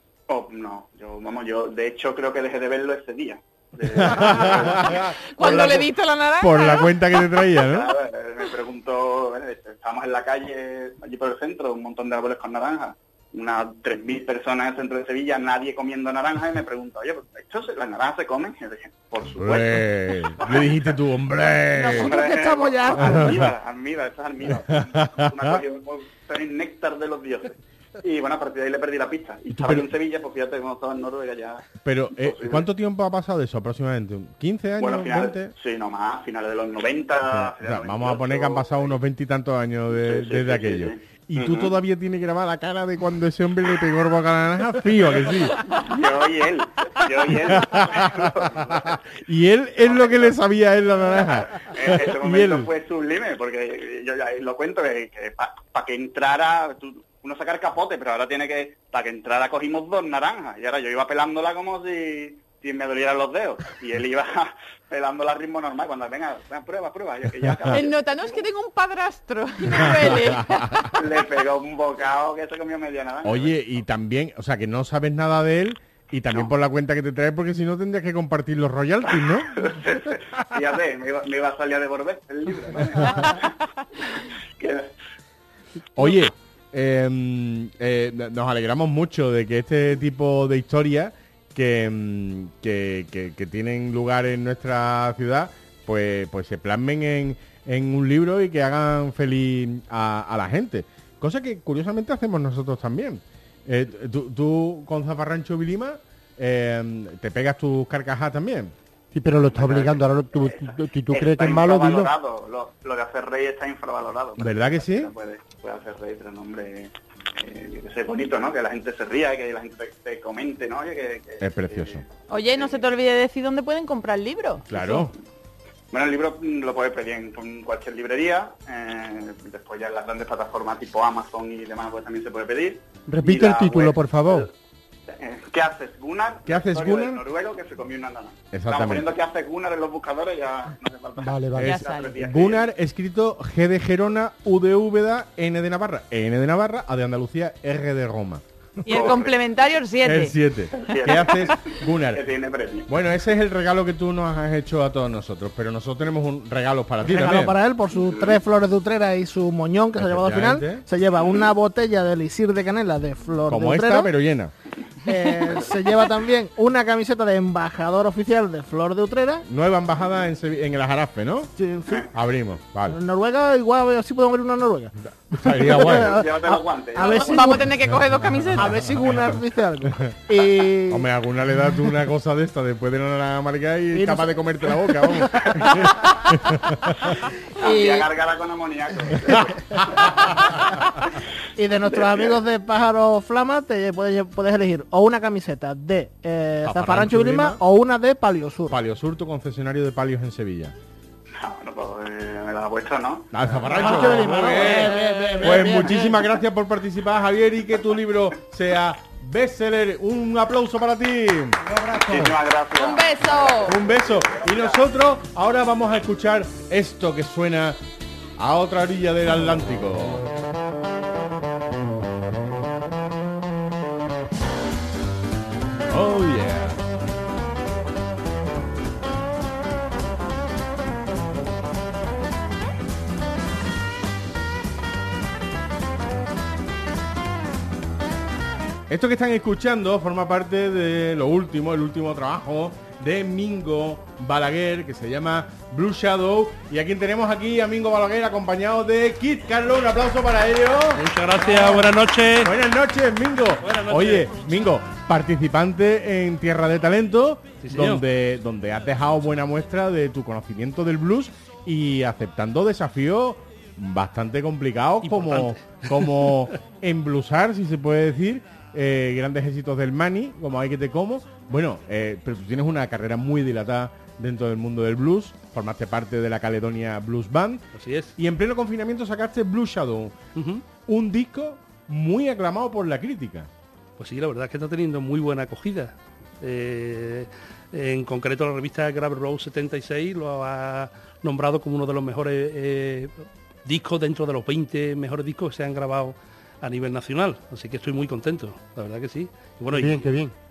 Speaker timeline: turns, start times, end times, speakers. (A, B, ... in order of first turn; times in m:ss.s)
0:00.3-0:05.7 A
0:03.9-0:07.9 B
0:05.3-0:07.4 C
0:07.6-0:20.9 A
0:19.4-0:22.1 B
0:21.8-0:23.3 D
0:21.9-0:32.6 A
0:23.0-0:23.5 B
0:24.5-0:25.6 B
0:29.5-0:29.9 B
0:31.8-0:35.5 B
0:34.8-0:38.9 A
0:37.3-0:45.6 B
0:40.0-0:41.8 A
0:45.6-0:49.0 A
0:47.3-0:52.7 B
0:49.8-0:50.4 A
0:51.2-1:08.4 A
1:07.4-1:07.8 B
1:07.7-1:10.9 C
1:09.6-1:10.9 B
1:10.9-1:13.8 A
1:13.2-1:19.6 B
1:19.5-1:23.6 A
1:23.0-1:23.3 B
1:24.1-1:24.9 A
1:26.0-1:48.7 B
1:49.1-1:52.1 E
1:49.5-2:02.9 A
1:54.4-1:55.1 B
2:01.4-2:02.0 B
2:02.3-2:05.0 C
2:04.7-2:05.1 B
2:05.9-2:14.5 A
2:13.1-2:14.5 E
2:15.1-2:22.7 A
2:16.4-2:17.2 B
2:18.5-2:19.1 B
2:21.2-2:21.7 E
2:21.6-2:28.4 B
2:21.7-2:22.1 C
2:28.8-2:30.4 C
2:28.9-2:29.7 A
2:30.0-2:32.2 B
2:30.7-2:32.9 A
2:31.0-2:31.4 C
2:32.9-2:37.6 B
2:37.0-2:44.1 D
2:38.0-2:38.4 A
2:40.0-2:40.8 B
2:43.5-2:44.5 B
2:45.0-2:49.4 D
2:49.5-2:51.5 B
2:51.6-2:52.1 D
2:52.1-2:53.0 B
2:52.9-2:57.7 D
2:55.3-2:56.2 B
2:55.8-2:57.6 A
2:57.0-2:59.0 C
2:58.6-3:01.1 D
3:00.9-3:07.2 B
3:03.9-3:05.1 D
3:07.6-3:10.4 A
3:07.6-3:08.1 D
3:11.6-3:18.8 D
3:11.9-3:12.4 A
3:16.6-3:17.6 B
3:18.7-3:20.7 B
3:21.4-3:23.4 A
3:23.3-3:31.6 B
3:23.6-3:26.2 D
3:31.6-3:32.4 E
3:31.9-3:34.8 A
3:32.7-3:33.8 C
3:33.6-3:37.8 B
3:38.4-3:40.2 B
3:45.9-3:46.8 B
3:58.9-4:40.2 B
4:10.9-4:12.5 F
4:13.6-4:14.4 F
4:17.6-4:18.0 F
4:25.0-4:26.5 F
4:37.7-4:38.1 F
4:40.3-4:40.6 F
4:40.8-4:43.5 B
4:44.0-5:00.1 F
4:59.7-5:00.3 E